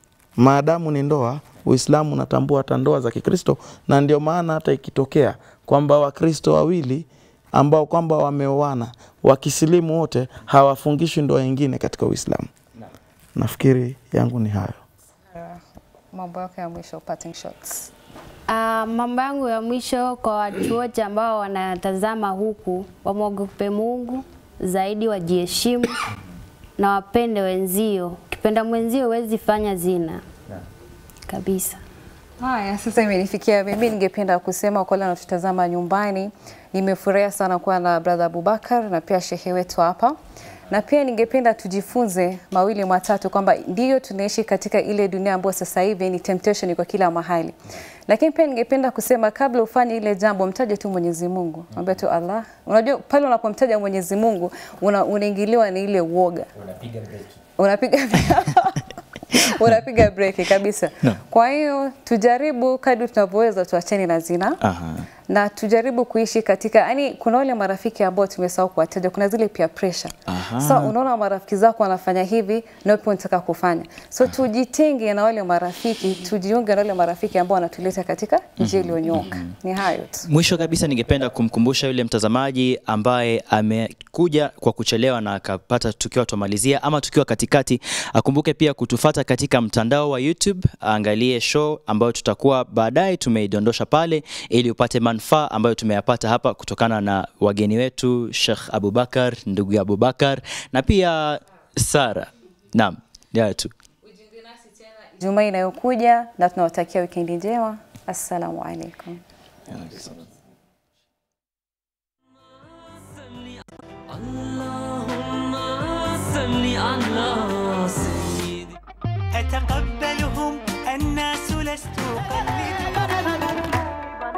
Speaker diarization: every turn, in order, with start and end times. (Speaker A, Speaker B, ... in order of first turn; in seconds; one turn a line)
Speaker A: 0.4-12.5
Speaker A: 13.3-14.8
Speaker B: 15.3-17.9
Speaker C: 18.5-26.0
Speaker C: 26.8-30.2
Speaker C: 31.3-31.8
Speaker B: 32.4-40.2
Speaker B: 40.7-56.5
Speaker D: 56.5-57.4
Speaker B: 57.6-64.6
Speaker D: 64.6-65.1
Speaker B: 65.3-80.3
Speaker D: 70.3-70.9
Speaker D: 78.6-79.5
Speaker D: 80.2-103.7
Speaker B: 104.1-109.2
Speaker D: 109.7-110.3
Speaker E: 112.4-118.8
Speaker E: 119.3-123.4